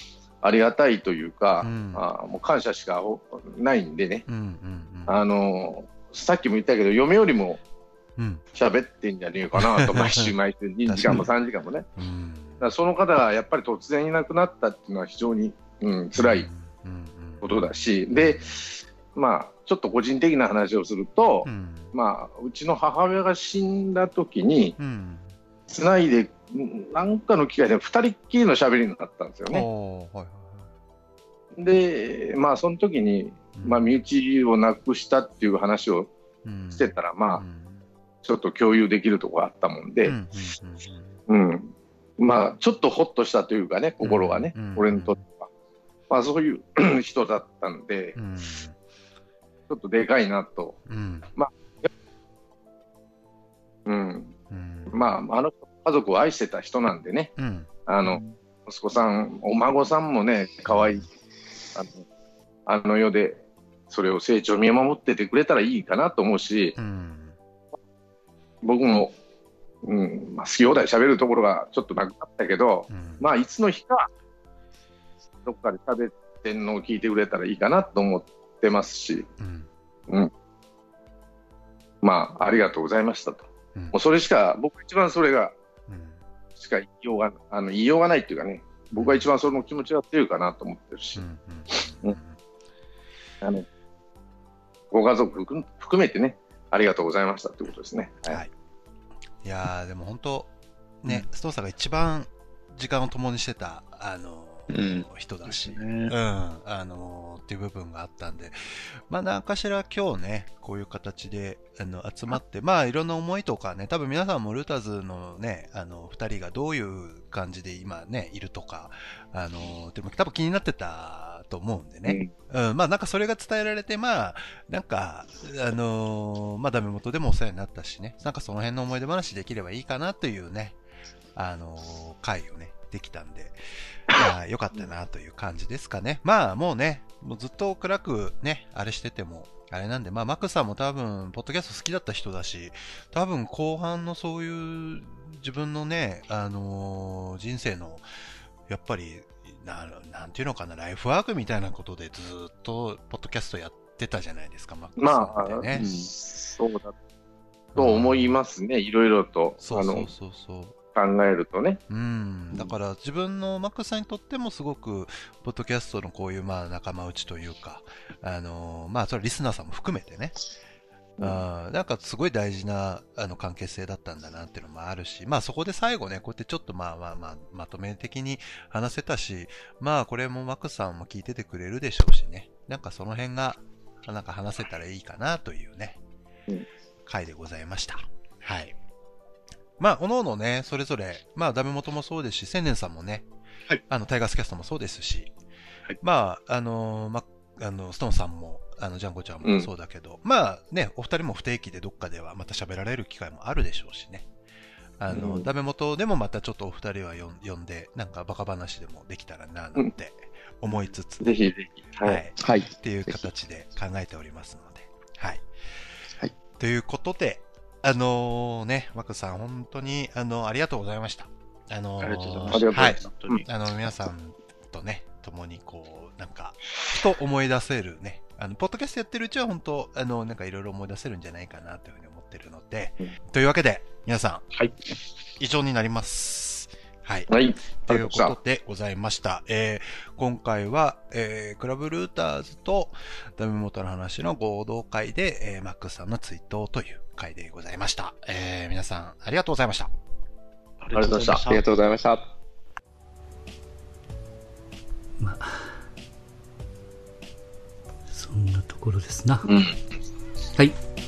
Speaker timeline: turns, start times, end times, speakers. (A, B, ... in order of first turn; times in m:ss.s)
0:00.4-0:04.2 A
0:01.6-0:02.0 B
0:04.3-0:05.2 B
0:05.1-0:07.6 A
0:08.2-0:08.4 B
0:08.5-0:11.9 A
0:09.5-0:10.3 B
0:10.8-0:11.3 B
0:12.0-0:12.6 B
0:12.6-0:16.5 A
0:16.1-0:18.7 B
0:17.4-0:24.8 A
0:21.4-0:21.9 B
0:24.8-0:25.3 B
0:25.7-0:29.7 A
0:29.5-0:30.7 B
0:31.6-0:36.1 A
0:33.6-0:34.0 B
0:36.4-0:37.8 B
0:36.7-0:37.4 A
0:38.2-0:40.1 A
0:40.0-0:41.2 B
0:41.3-0:45.5 A
0:44.0-0:45.2 B
0:46.1-0:48.2 A
0:48.2-0:48.8 B
0:49.7-0:50.8 A
0:50.9-0:51.3 B
0:51.4-0:51.9 A
0:53.8-0:54.3 A
0:54.5-0:55.0 B
0:54.9-0:57.3 A
0:57.4-0:58.2 B
0:57.8-1:01.0 A
1:00.6-1:01.0 B
1:01.7-1:02.0 A
1:02.7-1:06.7 A
1:06.8-1:07.4 B
1:08.6-1:09.1 A
1:09.8-1:14.1 A
1:12.9-1:13.3 B
1:15.4-1:19.3 A
1:19.4-1:19.7 B
1:22.0-1:25.5 A
1:25.9-1:26.2 B
1:26.6-1:31.2 A
1:28.9-1:29.3 B
1:31.2-1:32.4 B
1:34.9-1:38.4 A
1:39.4-1:40.5 B
1:41.0-2:10.8 B
1:44.7-1:45.1 C
1:45.4-1:46.1 D
2:11.3-2:28.0 B
2:28.7-2:35.8 B
2:35.0-2:36.9 A
2:35.7-2:36.1 C
2:37.7-2:38.4 B
2:37.8-2:40.1 A
2:39.6-2:40.7 B
2:40.9-2:41.8 A
2:41.9-2:50.4 B
2:51.2-3:06.0 B
3:07.0-3:08.7 B
3:09.8-3:13.2 B
3:13.9-3:15.3 B
3:16.0-3:24.2 B
3:19.4-3:19.7 A
3:25.0-3:31.3 B
3:25.1-3:25.5 A
3:31.2-3:32.2 A
3:32.0-3:35.5 B
3:32.4-3:33.3 C
3:36.6-3:54.5 B
3:42.0-3:43.4 D
3:42.5-3:43.4 A
3:55.4-3:57.3 B
3:57.3-3:58.4 A
3:57.8-4:09.9 B
4:10.8-4:11.6 D
4:10.9-4:11.4 A
4:11.4-4:12.3 C
4:15.2-4:15.8 E
4:18.1-4:19.5 E
4:19.4-4:19.8 A